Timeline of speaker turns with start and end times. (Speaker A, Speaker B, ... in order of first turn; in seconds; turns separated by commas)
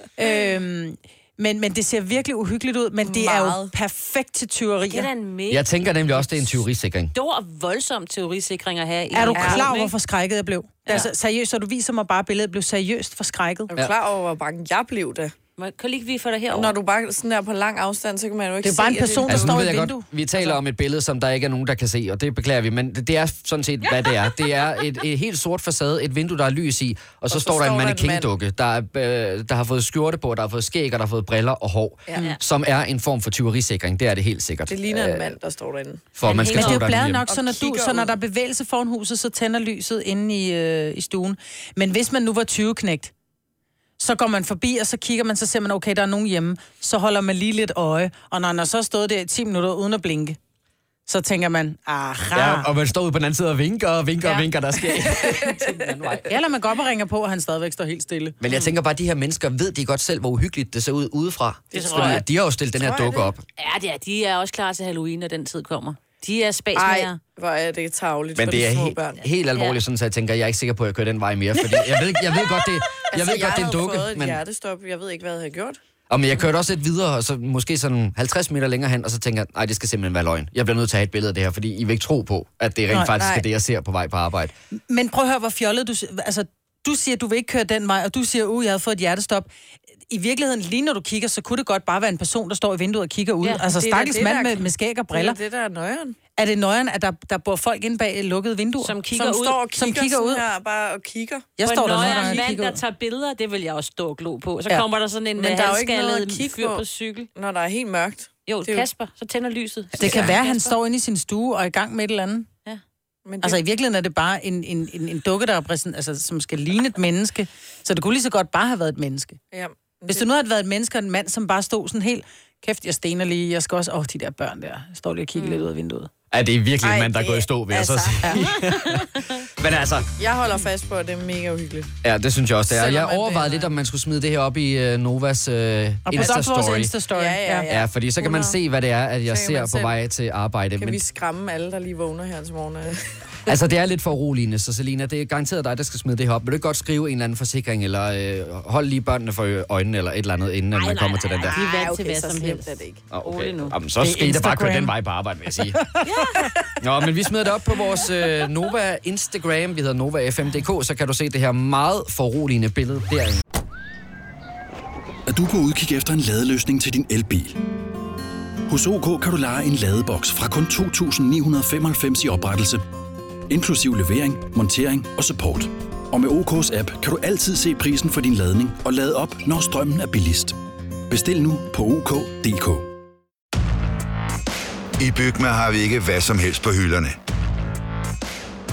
Speaker A: 0.2-5.1, Speaker B: 3.0-3.7, Speaker C: 4.9-6.5, Speaker D: 5.5-7.1, Speaker C: 7.1-9.9, Speaker A: 9.1-13.7, Speaker B: 9.3-9.7, Speaker B: 13.7-15.3, Speaker C: 15.6-16.7, Speaker B: 16.5-19.7, Speaker A: 18.6-20.5, Speaker D: 19.3-35.3, Speaker B: 27.3-28.3, Speaker B: 34.7-36.1, Speaker D: 36.1-37.2, Speaker C: 36.2-36.8, Speaker A: 36.5-43.1, Speaker B: 37.3-38.1, Speaker A: 44.0-50.4, Speaker A: 51.1-52.7, Speaker D: 52.3-56.3, Speaker A: 56.3-58.4, Speaker D: 58.4-63.4, Speaker B: 61.7-62.2, Speaker A: 61.7-62.2, Speaker B: 62.8-63.3, Speaker C: 63.6-67.2, Speaker B: 66.7-69.2, Speaker D: 68.3-74.4, Speaker C: 69.5-69.8, Speaker B: 73.1-75.8, Speaker D: 76.1-84.5, Speaker B: 83.1-83.4, Speaker A: 84.9-89.5, Speaker A: 90.1-95.4, Speaker B: 93.7-96.2, Speaker A: 96.4-99.0, Speaker C: 98.8-99.6, Speaker B: 99.1-102.4, Speaker A: 99.7-100.4, Speaker A: 101.6-102.8, Speaker C: 101.6-107.3, Speaker B: 105.4-106.8, Speaker B: 107.3-108.9, Speaker C: 108.5-110.7, Speaker A: 110.0-112.5, Speaker B: 113.2-113.6, Speaker A: 113.4-119.4, Speaker B: 119.5-120.2, Speaker A: 120.1-126.1, Speaker C: 125.4-125.6, Speaker D: 126.3-130.1, Speaker B: 126.8-128.5, Speaker B: 130.2-131.9, Speaker D: 132.0-136.9, Speaker B: 132.7-133.7, Speaker A: 136.1-137.7, Speaker B: 137.1-138.5, Speaker D: 137.7-141.0, Speaker B: 139.2-139.9, Speaker B: 140.8-143.1, Speaker D: 143.5-151.6, Speaker C: 150.7-152.7, Speaker B: 151.4-153.0, Speaker D: 153.1-155.8, Speaker C: 153.2-153.8, Speaker A: 154.0-154.9, Speaker C: 156.0-156.5, Speaker D: 156.8-163.4, Speaker E: 165.3-167.6, Speaker E: 168.7-172.8, Speaker E: 173.5-180.6, Speaker E: 181.1-182.9, Speaker F: 185.0-187.2